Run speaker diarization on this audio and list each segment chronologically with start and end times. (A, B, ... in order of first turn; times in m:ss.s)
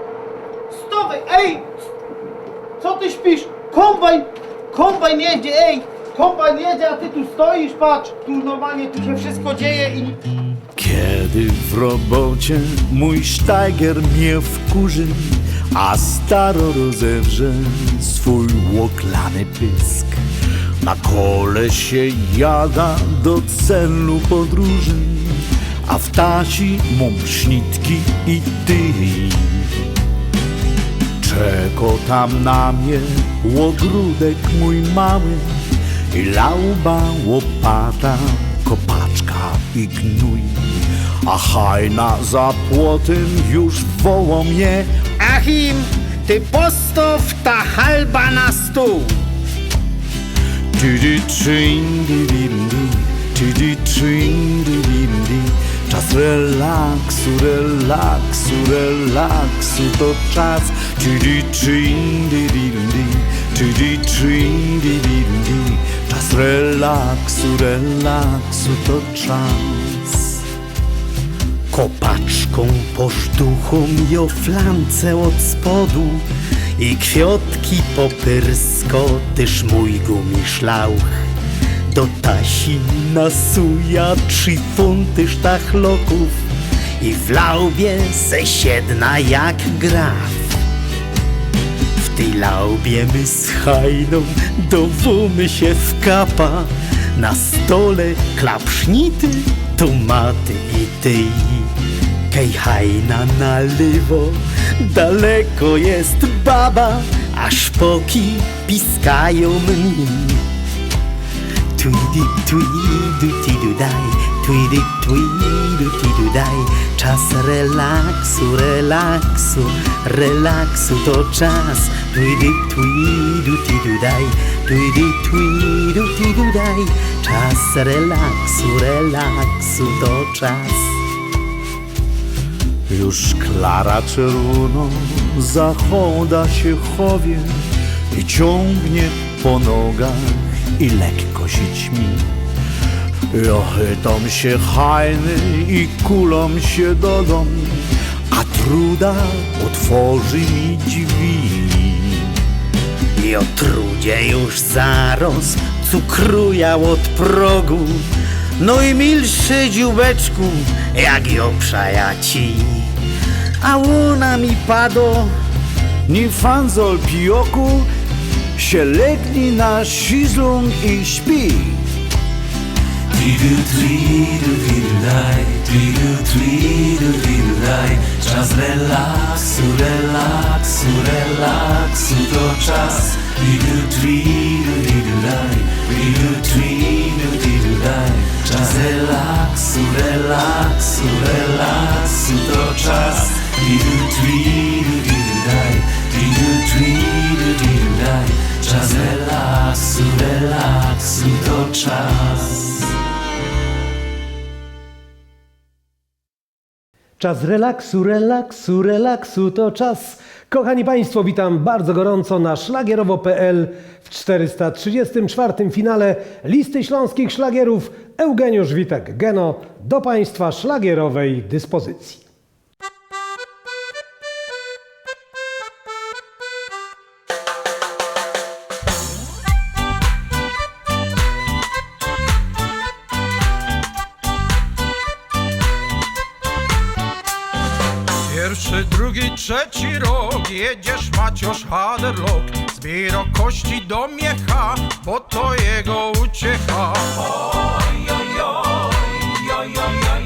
0:00.7-0:01.8 A
0:02.8-0:10.2 A
0:10.8-0:20.2 B
0:20.8-0:29.8 B
0:31.2-0:35.6 B
0:36.1-0:45.1 B
0:45.2-0:49.1 C
0:50.8-1:10.3 B
1:11.7-1:21.0 C
1:21.9-1:30.6 C
1:32.0-1:41.8 C
1:42.3-1:50.5 C
1:51.8-2:11.0 C
2:12.9-2:22.3 B
2:23.3-2:32.3 B
2:33.2-2:43.0 C
2:43.6-2:44.1 C
2:43.9-2:44.8 B
2:44.7-2:45.3 C
2:46.1-2:47.9 B
2:48.6-2:51.8 B
2:53.4-2:59.0 D
3:00.5-3:01.2 D
3:02.4-3:02.8 D
3:04.5-3:05.1 D
3:05.7-3:06.7 D
3:07.7-3:09.5 D
3:13.5-3:14.7 D
3:15.5-3:22.5 D
3:27.2-3:42.2 E
3:58.1-4:07.4 F